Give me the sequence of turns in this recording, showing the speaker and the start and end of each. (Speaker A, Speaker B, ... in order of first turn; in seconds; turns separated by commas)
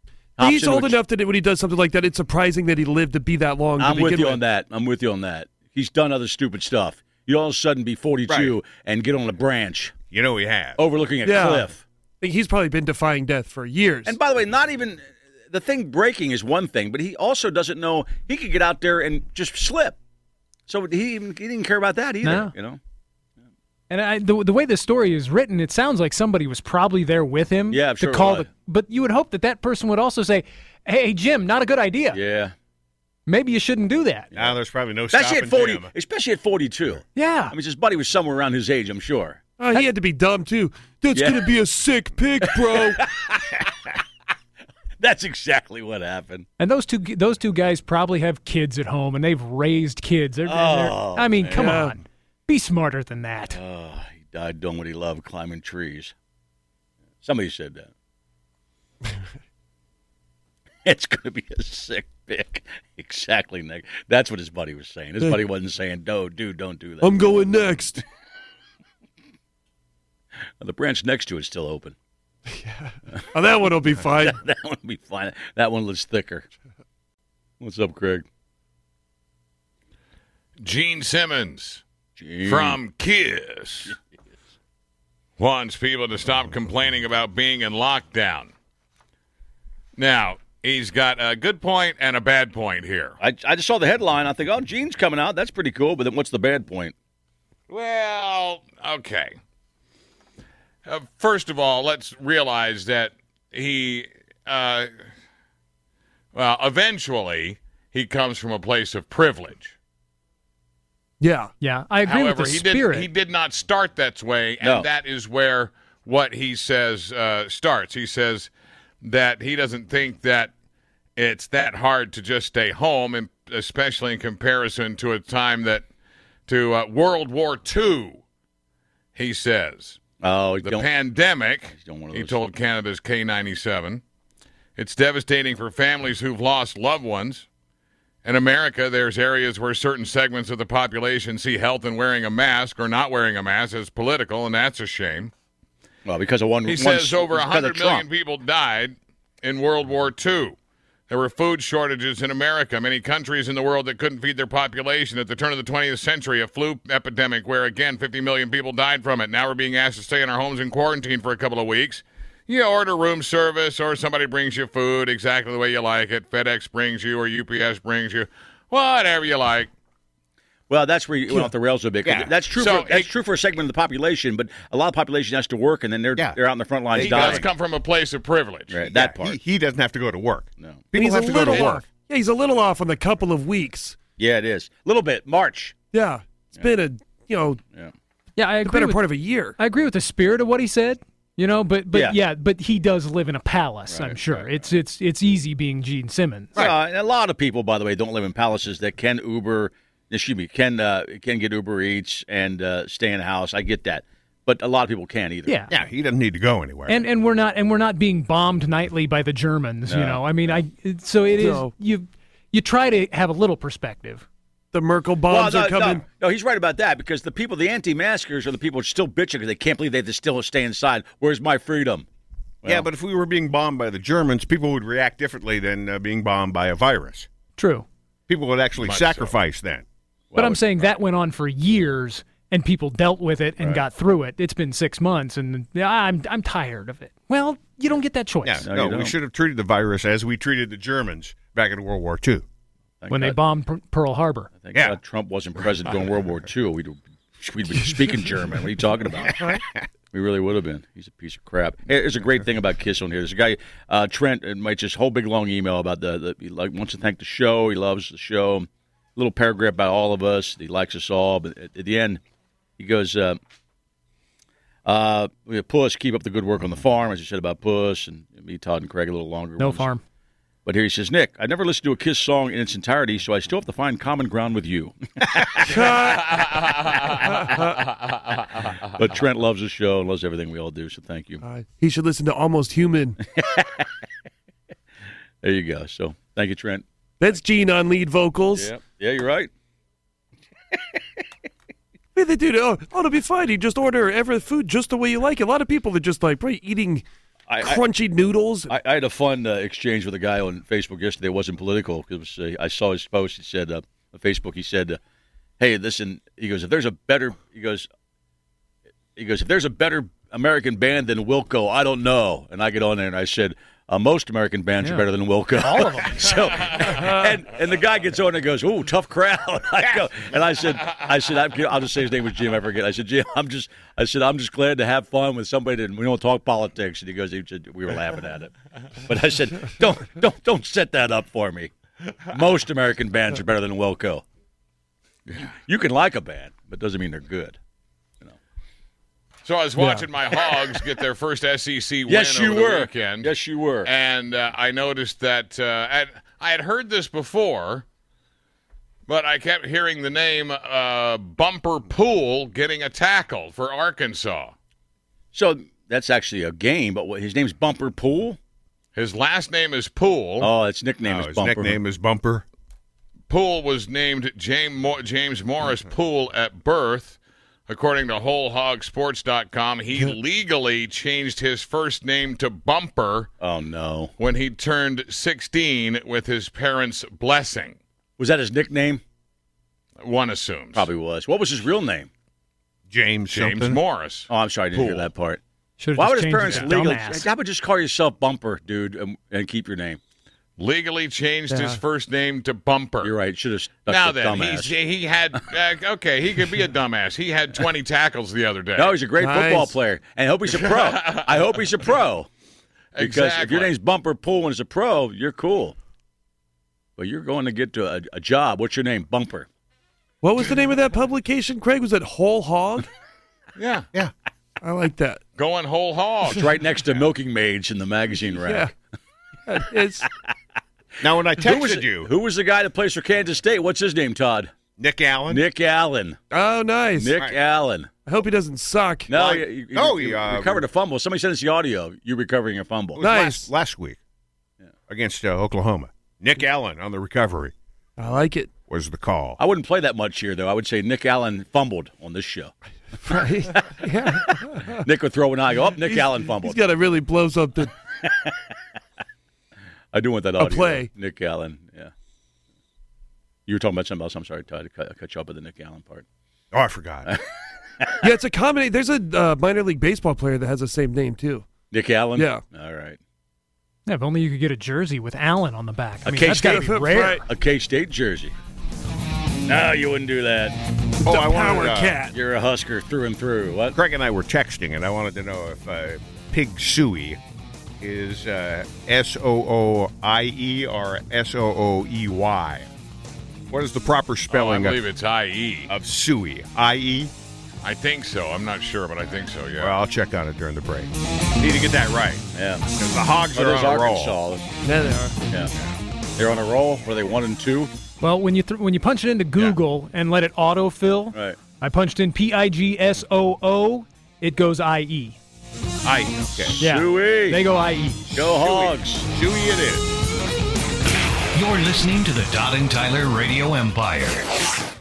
Speaker A: 0.4-1.0, Speaker B: 0.4-4.4, Speaker A: 3.8-9.9, Speaker C: 8.3-8.6, Speaker C: 10.1-10.8, Speaker A: 10.8-11.8, Speaker B: 11.2-11.7, Speaker B: 12.2-14.1, Speaker A: 14.1-20.0, Speaker A: 20.7-22.8, Speaker D: 22.2-22.5, Speaker D: 23.9-32.2, Speaker A: 27.7-28.5, Speaker A: 32.1-32.5, Speaker D: 33.2-34.3, Speaker A: 34.3-34.6, Speaker C: 34.4-35.9, Speaker A: 35.1-39.4, Speaker D: 37.1-37.5, Speaker B: 39.6-43.0, Speaker A: 41.1-41.5, Speaker A: 42.4-43.9, Speaker A: 45.0-46.5, Speaker D: 46.6-53.6, Speaker A: 50.4-51.8, Speaker B: 51.6-51.9, Speaker A: 53.5-56.1, Speaker A: 57.2-57.9, Speaker A: 60.8-67.8, Speaker B: 67.0-68.0, Speaker A: 70.6-72.0, Speaker B: 72.5-74.4, Speaker A: 74.2-76.5, Speaker A: 77.6-78.3, Speaker E: 80.6-81.8, Speaker A: 82.2-82.8, Speaker E: 82.5-83.9, Speaker E: 85.4-88.5, Speaker E: 90.0-93.2, Speaker A: 93.2-96.9, Speaker E: 97.7-99.4, Speaker E: 100.8-104.9, Speaker E: 106.3-109.7, Speaker D: 111.6-113.1, Speaker E: 112.0-118.5, Speaker A: 114.6-114.9, Speaker E: 119.0-120.5, Speaker E: 121.2-125.8, Speaker E: 126.5-128.2, Speaker E: 129.1-130.0, Speaker A: 130.2-130.9, Speaker E: 130.6-134.0, Speaker A: 131.7-132.5, Speaker E: 134.8-137.5, Speaker E: 138.2-145.3, Speaker A: 146.1-148.1, Speaker E: 146.7-150.6, Speaker E: 151.1-169.7, Speaker A: 170.7-177.4, Speaker C: 172.0-172.3, Speaker E: 172.6-173.1, Speaker C: 176.9-177.4, Speaker E: 177.0-178.8, Speaker A: 178.7-179.4, Speaker C: 178.9-181.8, Speaker A: 180.6-180.9, Speaker B: 180.9-183.9, Speaker A: 184.2-185.7, Speaker B: 185.9-187.6, Speaker D: 188.3-189.0, Speaker B: 188.6-189.5, Speaker D: 189.6-196.6, Speaker A: 191.9-192.2, Speaker A: 193.9-194.7, Speaker A: 196.6-205.6, Speaker D: 205.4-205.7, Speaker C: 205.7-207.0, Speaker D: 206.9-214.2, Speaker A: 209.8-210.6, Speaker B: 211.4-211.7, Speaker B: 214.7-216.0, Speaker A: 215.3-222.1, Speaker A: 222.6-222.9, Speaker C: 222.6-227.3, Speaker D: 227.6-227.8, Speaker C: 228.3-229.8, Speaker E: 228.8-229.3, Speaker A: 230.3-230.9, Speaker D: 230.3-238.6, Speaker C: 238.4-242.4, Speaker A: 238.6-239.2, Speaker A: 243.0-243.4, Speaker D: 243.1-244.5, Speaker A: 244.6-249.4, Speaker A: 250.1-262.2, Speaker A: 262.8-263.4, Speaker A: 264.9-269.9, Speaker D: 269.6-270.0, Speaker A: 270.6-275.7, Speaker B: 275.6-276.5, Speaker E: 276.5-277.2, Speaker B: 277.1-277.8, Speaker E: 277.8-278.7, Speaker A: 279.0-281.4, Speaker B: 281.4-283.2, Speaker A: 283.3-283.9, Speaker A: 285.4-286.8, Speaker B: 287.2-288.6, Speaker A: 288.5-289.5, Speaker B: 292.1-297.0, Speaker A: 297.5-297.8, Speaker B: 297.6-298.7, Speaker A: 298.7-305.0, Speaker A: 305.6-307.9, Speaker A: 309.1-328.5, Speaker D: 314.8-315.1, Speaker D: 315.6-316.3, Speaker A: 329.0-331.7, Speaker A: 332.3-334.2, Speaker A: 335.5-337.6, Speaker E: 339.4-343.3, Speaker A: 342.1-343.9, Speaker E: 343.8-347.8, Speaker E: 349.1-354.5, Speaker A: 355.3-358.4, Speaker E: 358.9-360.5, Speaker A: 360.4-361.8, Speaker C: 361.0-362.4, Speaker E: 363.3-373.3, Speaker A: 373.4-374.1, Speaker E: 374.2-377.8, Speaker A: 378.2-379.0, Speaker E: 380.0-380.9, Speaker A: 380.7-382.1, Speaker C: 382.9-383.8, Speaker E: 383.3-385.1, Speaker A: 384.3-385.4, Speaker D: 385.8-387.3, Speaker A: 385.9-390.0, Speaker E: 390.6-393.1, Speaker B: 391.5-391.8, Speaker A: 393.0-394.7, Speaker E: 393.9-399.0, Speaker A: 398.8-402.3, Speaker B: 399.2-399.8, Speaker E: 400.7-401.3, Speaker E: 402.9-403.7, Speaker A: 403.0-405.8, Speaker A: 407.0-409.5, Speaker B: 410.2-412.9, Speaker E: 413.6-413.9, Speaker B: 414.6-415.2, Speaker E: 415.4-416.4, Speaker A: 416.3-418.7, Speaker B: 418.4-418.7, Speaker B: 419.5-420.0, Speaker C: 421.0-422.1, Speaker A: 421.4-424.5, Speaker C: 424.8-425.4, Speaker A: 425.3-426.2, Speaker B: 426.3-427.1, Speaker A: 427.0-427.9, Speaker B: 428.1-429.1, Speaker A: 429.1-433.0, Speaker C: 429.1-430.6, Speaker C: 432.9-434.0, Speaker B: 433.0-433.5, Speaker C: 434.9-437.5, Speaker B: 438.0-438.4, Speaker C: 438.7-439.4, Speaker A: 439.4-442.5, Speaker B: 443.0-444.8, Speaker A: 444.8-446.6, Speaker B: 445.8-447.7, Speaker A: 448.0-448.3, Speaker A: 449.9-451.9, Speaker B: 450.4-450.9, Speaker A: 453.5-456.1, Speaker C: 456.5-457.1, Speaker B: 458.0-461.4, Speaker A: 461.7-463.0, Speaker B: 462.2-462.4, Speaker D: 463.9-467.2, Speaker A: 466.0-466.7, Speaker B: 466.5-467.2, Speaker A: 467.2-468.3, Speaker A: 469.4-470.6, Speaker B: 471.0-472.1, Speaker C: 471.0-472.0, Speaker A: 472.1-473.8, Speaker C: 473.7-477.2, Speaker C: 477.8-482.7, Speaker C: 483.5-484.8, Speaker E: 484.3-485.7, Speaker C: 485.7-487.1, Speaker E: 487.6-489.8, Speaker C: 489.6-494.2, Speaker A: 492.3-492.7, Speaker A: 493.3-494.5, Speaker B: 494.6-495.1, Speaker A: 496.2-497.7, Speaker D: 498.0-505.2, Speaker A: 501.1-501.4, Speaker C: 505.8-506.6, Speaker A: 506.6-507.4, Speaker D: 506.6-508.2, Speaker A: 508.1-509.1, Speaker C: 508.3-509.9, Speaker F: 511.3-514.3